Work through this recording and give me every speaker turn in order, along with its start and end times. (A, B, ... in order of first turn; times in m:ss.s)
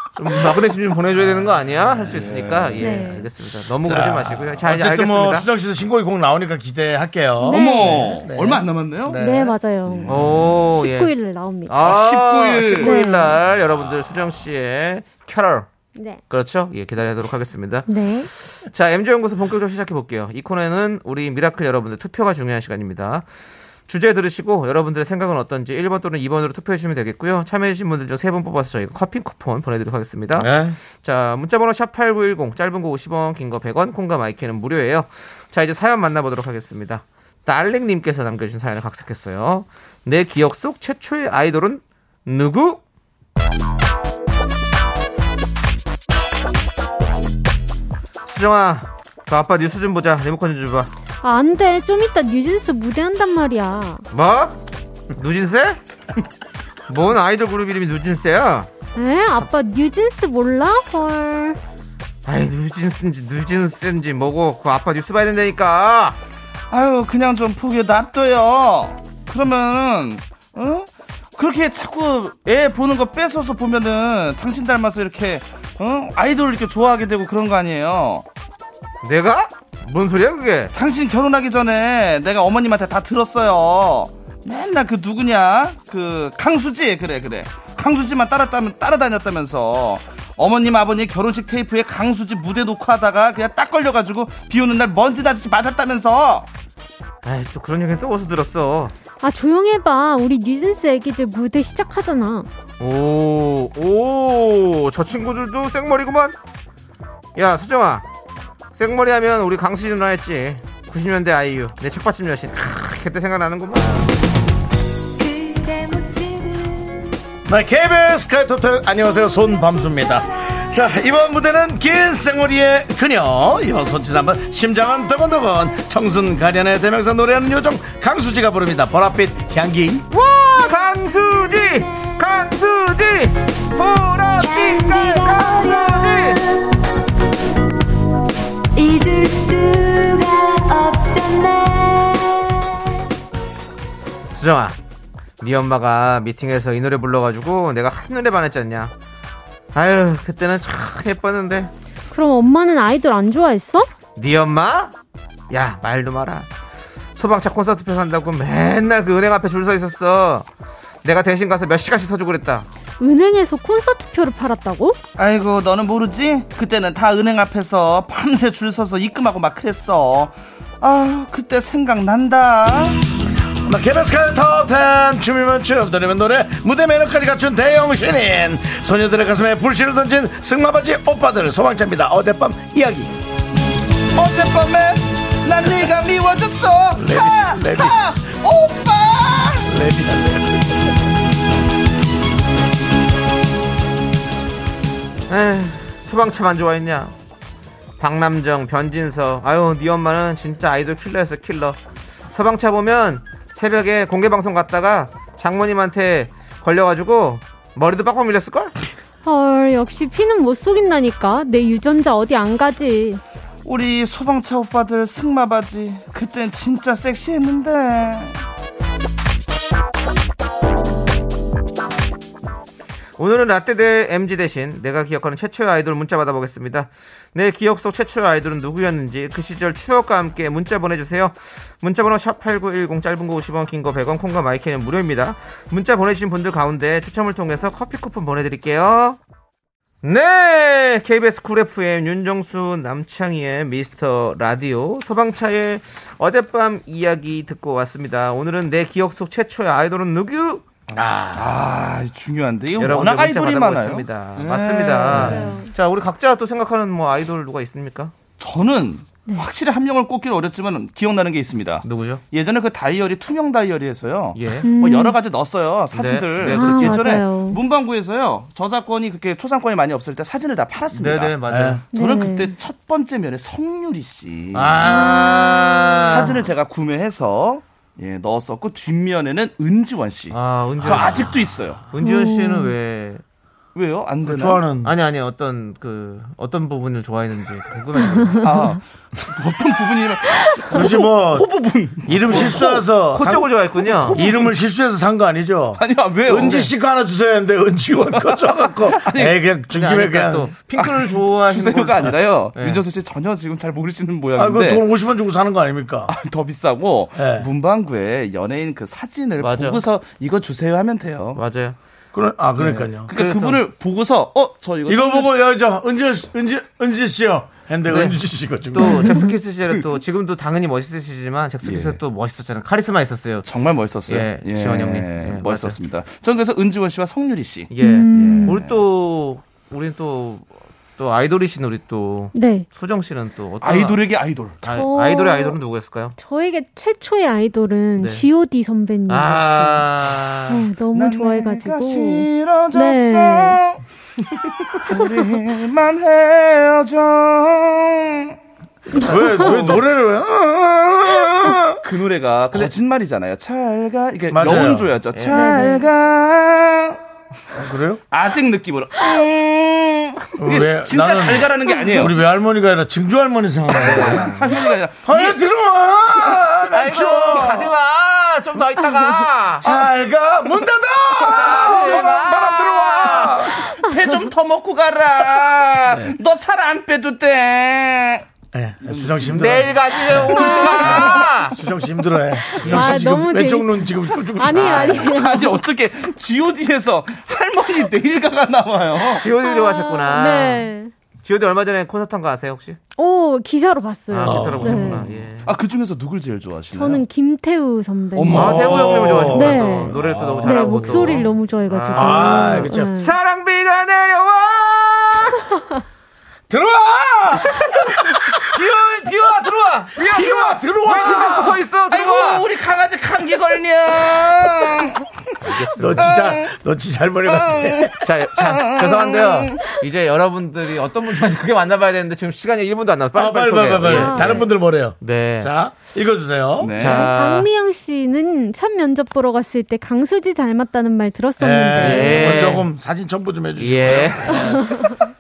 0:00.2-0:05.5 A
0:02.1-0:02.8 B
0:02.8-0:03.3 C
0:03.8-0:10.5 D
0:07.4-0:08.1 C
0:07.5-0:09.2 B
0:09.1-0:10.1 C
0:09.9-0:10.6 B
0:10.0-0:11.1 A
0:10.7-0:11.8 C
0:11.7-0:15.7 A
0:11.8-0:13.0 B
0:12.8-0:13.3 C
0:16.0-0:16.2 C
0:16.3-0:17.9 A
0:17.9-0:18.3 C
0:18.5-0:23.3 A
0:23.9-0:42.8 A
0:30.4-0:30.8 D
0:48.3-0:50.9 A
0:51.2-0:54.0 C
0:54.1-0:54.6 A
0:55.1-0:55.8 A
0:56.9-0:58.7 A
0:59.0-1:01.6 C
1:02.2-1:06.2 A
1:06.7-1:18.2 B
1:19.0-1:20.7 A
1:20.7-1:36.5 B
1:37.2-1:38.9 A
1:39.2-1:42.5 C
1:42.8-1:46.4 A
1:47.4-1:48.0 A
1:48.7-1:54.1 A
1:55.2-1:57.1 E
1:57.4-2:10.0 D
2:10.1-2:16.4 A
2:14.4-2:16.7 E
2:18.7-2:22.6 E
2:24.3-2:24.8 A
2:25.4-2:28.9 A
2:29.7-2:31.7 A
2:32.1-2:33.9 C
2:34.2-2:34.9 A
2:35.5-2:36.5 A
2:37.2-2:40.5 A
2:41.0-2:42.7 A
2:43.0-2:45.0 C
2:45.2-2:53.0 B
2:53.6-3:03.1 D
3:04.1-3:09.7 B
3:07.0-3:08.0 D
3:09.6-3:10.9 D
3:15.3-3:17.1 A
3:18.0-3:21.8 A
3:22.3-3:28.7 A
3:29.2-3:33.2 C
3:33.6-3:38.4 B
3:43.2-3:59.2 A
4:00.0-4:10.6 A
4:10.9-4:11.5 D
4:11.4-4:15.4 B
4:12.8-4:18.1 A
4:15.1-4:15.4 D
4:15.2-4:15.7 C
4:18.4-4:31.4 B
4:21.8-4:22.2 A
4:24.4-4:24.7 A
4:24.6-4:25.2 C
4:25.9-4:27.0 A
4:26.4-4:27.6 C
4:30.9-4:31.8 A
4:31.5-4:31.8 D
4:31.9-4:34.8 B
4:31.9-4:32.5 C
4:34.5-4:36.4 A
4:34.8-4:35.7 C
4:36.0-4:41.8 B
4:40.3-4:41.4 A
4:40.8-4:41.3 D
4:41.9-4:43.2 A
4:42.0-4:42.7 C
4:43.7-4:44.6 B
4:44.2-4:44.9 D
4:44.8-4:48.5 A
4:48.4-4:52.7 B
4:50.7-4:51.5 D
4:52.0-4:53.5 D
4:52.3-4:54.2 A
4:53.8-4:54.6 B
4:54.0-5:00.5 D
4:55.8-4:56.7 B
4:58.0-4:59.4 B
4:59.7-5:02.8 A
5:00.7-5:04.9 B
5:04.4-5:06.1 D
5:06.1-5:11.4 B
5:07.1-5:07.5 D
5:09.4-5:09.8 A
5:11.4-5:11.8 A
5:12.1-5:13.1 D
5:12.6-5:15.3 B
5:13.1-5:13.6 A
5:14.9-5:19.1 D
5:17.9-5:18.2 A
5:18.7-5:23.5 A
5:18.8-5:19.3 C
5:21.6-5:22.0 B
5:23.4-5:28.7 B
5:24.1-5:25.8 A
5:27.7-5:30.4 A
5:27.8-5:28.6 C
5:31.0-5:34.0 A
5:32.3-5:32.7 C
5:33.6-5:34.6 B
5:34.6-5:36.1 A
5:34.7-5:35.6 C
5:36.2-5:39.9 C
5:38.0-5:38.2 A
5:39.1-5:40.7 A
5:40.5-5:43.6 C
5:40.9-5:48.4 B
5:48.9-5:49.7 C
5:49.0-5:51.8 D
5:51.8-5:57.0 B
5:54.3-5:54.9 D
5:55.1-5:55.5 A
5:55.3-5:55.9 C
5:57.6-5:58.0 D
5:58.1-6:02.2 B
5:59.0-5:59.6 C
6:00.4-6:04.4 D
6:03.7-6:04.4 A
6:03.7-6:05.4 B
6:05.0-6:07.7 D
6:06.1-6:06.4 B
6:06.7-6:09.8 A
6:09.6-6:13.6 D
6:11.2-6:13.6 A
6:11.3-6:12.1 B
6:13.0-6:18.3 B
6:18.5-6:20.3 D
6:18.8-6:19.7 B
6:19.4-6:21.6 A
6:20.4-6:21.2 C
6:20.8-6:25.2 D
6:22.6-6:25.6 C
6:22.7-6:23.0 B
6:24.5-6:25.1 A
6:24.6-6:29.3 B
6:29.2-6:30.7 A
6:29.4-6:30.9 C
6:31.2-6:32.8 A
6:33.0-6:35.1 C
6:34.1-6:35.5 A
6:34.2-6:34.9 D
6:35.4-6:37.0 B
6:36.7-6:38.6 C
6:38.1-6:39.2 B
6:38.2-6:41.3 D
6:38.3-6:45.4 A
6:39.3-6:43.1 C
6:42.0-6:42.9 D
6:46.5-6:48.4 D
6:47.5-6:52.4 A
6:50.0-6:51.6 D
6:51.9-6:55.0 B
6:55.4-6:56.2 A
6:55.8-6:57.9 D
6:56.0-6:56.5 B
6:57.3-6:59.6 B
6:58.0-7:05.5 A
7:03.1-7:06.9 D
7:03.8-7:04.4 C
7:06.6-7:07.1 B
7:06.8-7:07.5 A
7:06.9-7:12.6 C
7:11.4-7:14.9 D
7:11.8-7:12.7 A
7:13.6-7:14.6 A
7:14.6-7:14.9 C